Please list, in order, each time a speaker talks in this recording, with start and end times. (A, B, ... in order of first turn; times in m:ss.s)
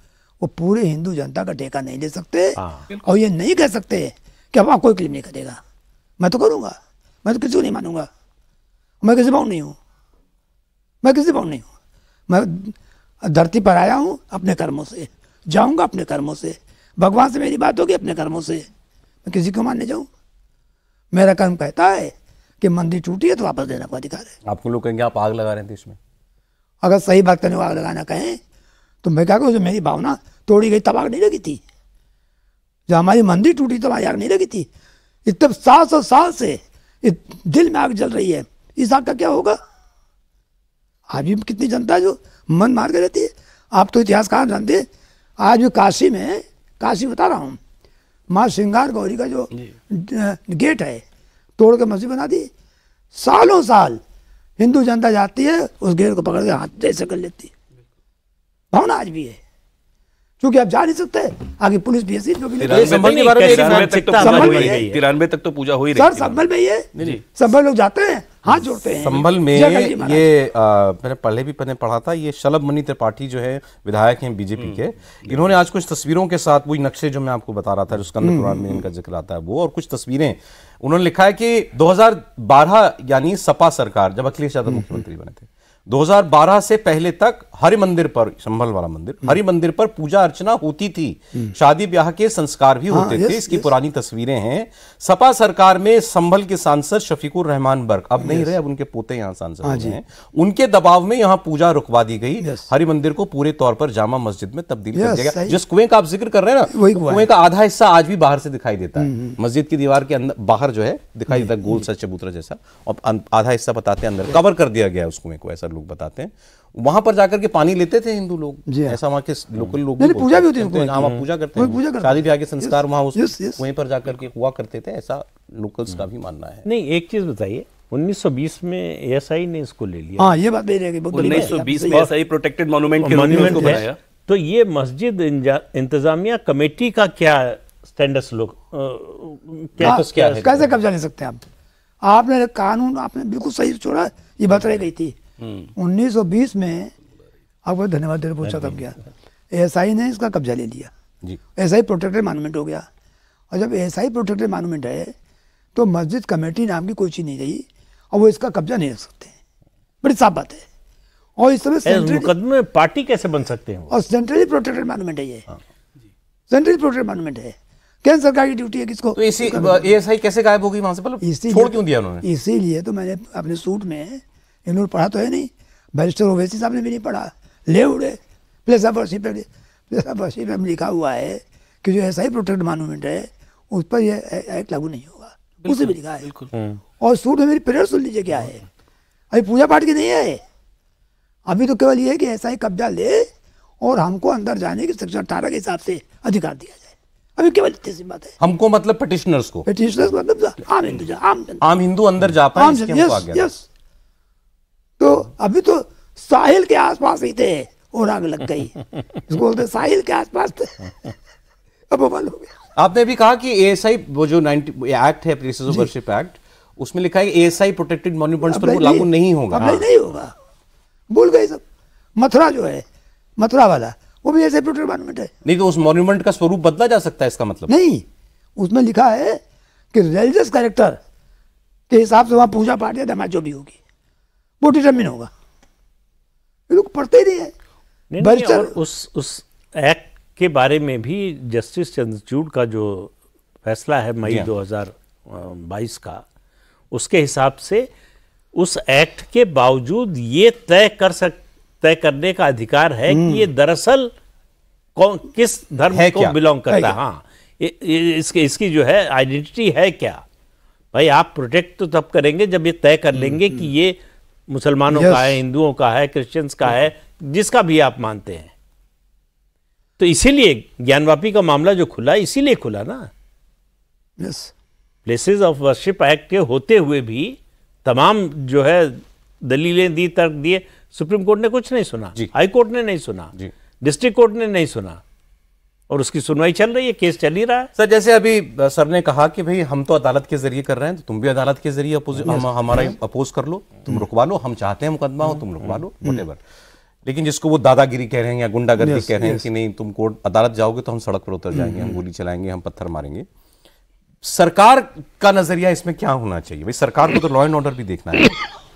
0:00.4-0:05.6 A
0:02.6-0:02.9 B
0:06.2-0:08.1 A
0:09.0-0:09.8 A
0:11.0-0:11.7 A
0:12.3-0:18.6 A
0:19.2-0:20.1 A
0:21.1-0:24.3 A
0:24.4-0:26.0 C
0:26.8-0:28.4 A
0:29.0-0:31.6 A
0:32.9-0:34.7 A
0:35.2-0:39.6 A
0:41.1-0:44.9 A
0:45.4-0:47.6 A
0:48.3-0:51.0 A
0:51.6-0:52.5 A
0:53.1-0:54.0 A
0:54.6-0:57.5 A
0:58.7-0:59.4 A
1:00.4-1:03.1 A
1:02.6-1:04.4 C
1:02.7-1:06.4 D
1:02.7-1:05.0 B
1:04.2-1:04.8 A
1:06.0-1:10.3 A
1:07.0-1:07.2 C
1:08.9-2:06.6 C
1:14.6-1:15.5 D
1:18.2-1:18.8 A
1:24.7-1:25.0 A
1:32.9-1:33.7 A
1:38.2-1:38.5 A
1:39.6-1:40.0 A
1:42.4-1:42.6 A
1:44.9-1:45.6 A
1:46.7-1:47.3 A
1:49.0-1:49.4 A
1:51.3-1:51.7 A
1:58.7-1:59.0 A
2:00.0-2:03.6 A
2:01.0-2:01.2 B
2:06.6-2:10.4 B
2:10.2-2:12.1 A
2:11.1-2:14.0 D
2:11.2-2:11.5 B
2:13.0-2:20.5 B
2:13.3-2:13.8 A
2:19.8-2:20.6 C
2:19.8-2:21.4 A
2:22.0-2:25.1 A
2:25.4-2:25.7 D
2:25.8-2:26.9 A
2:27.6-2:29.0 A
2:29.5-2:30.9 A
2:31.6-2:32.9 A
2:33.5-2:35.1 A
2:35.7-2:39.3 A
2:40.0-2:40.6 A
2:41.4-2:42.3 A
2:41.8-2:44.0 B
2:43.9-2:45.4 A
2:46.5-2:49.8 A
2:49.2-2:52.2 C
2:51.2-3:06.3 A
3:05.6-3:06.5 D
3:06.5-3:06.8 B
3:07.0-3:08.6 A
3:09.3-3:10.4 A
3:11.5-3:13.3 A
3:13.8-3:18.3 A
3:18.4-3:19.7 C
3:19.7-3:21.6 A
3:21.6-3:23.5 C
3:22.5-3:23.6 A
3:25.0-3:30.9 A
3:31.9-3:32.5 A
3:32.8-3:39.9 C
3:38.5-3:40.3 A
3:39.6-3:39.8 B
3:41.1-3:41.6 A
3:42.2-3:42.8 A
3:43.4-3:45.3 A
3:45.4-3:47.7 C
3:47.7-3:49.4 A
3:49.9-3:51.0 A
3:51.9-3:53.8 A
3:54.6-3:55.3 A
3:56.7-3:57.5 A
3:58.1-4:03.1 B
3:58.2-3:58.7 A
4:03.6-4:06.2 B
4:04.2-4:04.5 C
4:06.9-4:07.9 B
4:08.5-4:14.1 B
4:13.1-4:13.5 A
4:14.9-4:20.2 B
4:15.9-4:16.4 C
4:16.7-4:17.0 A
4:20.9-4:24.0 B
4:23.1-4:23.6 A
4:24.5-4:28.5 B
4:24.9-4:25.4 A
4:30.0-4:33.1 B
4:34.2-4:34.5 A
4:35.0-4:45.0 B
4:45.9-4:47.7 B
4:47.8-4:56.4 C
4:52.2-4:52.9 A
4:57.0-5:03.3 C
4:58.8-4:59.4 A
5:01.5-5:02.0 A
5:04.2-5:08.4 C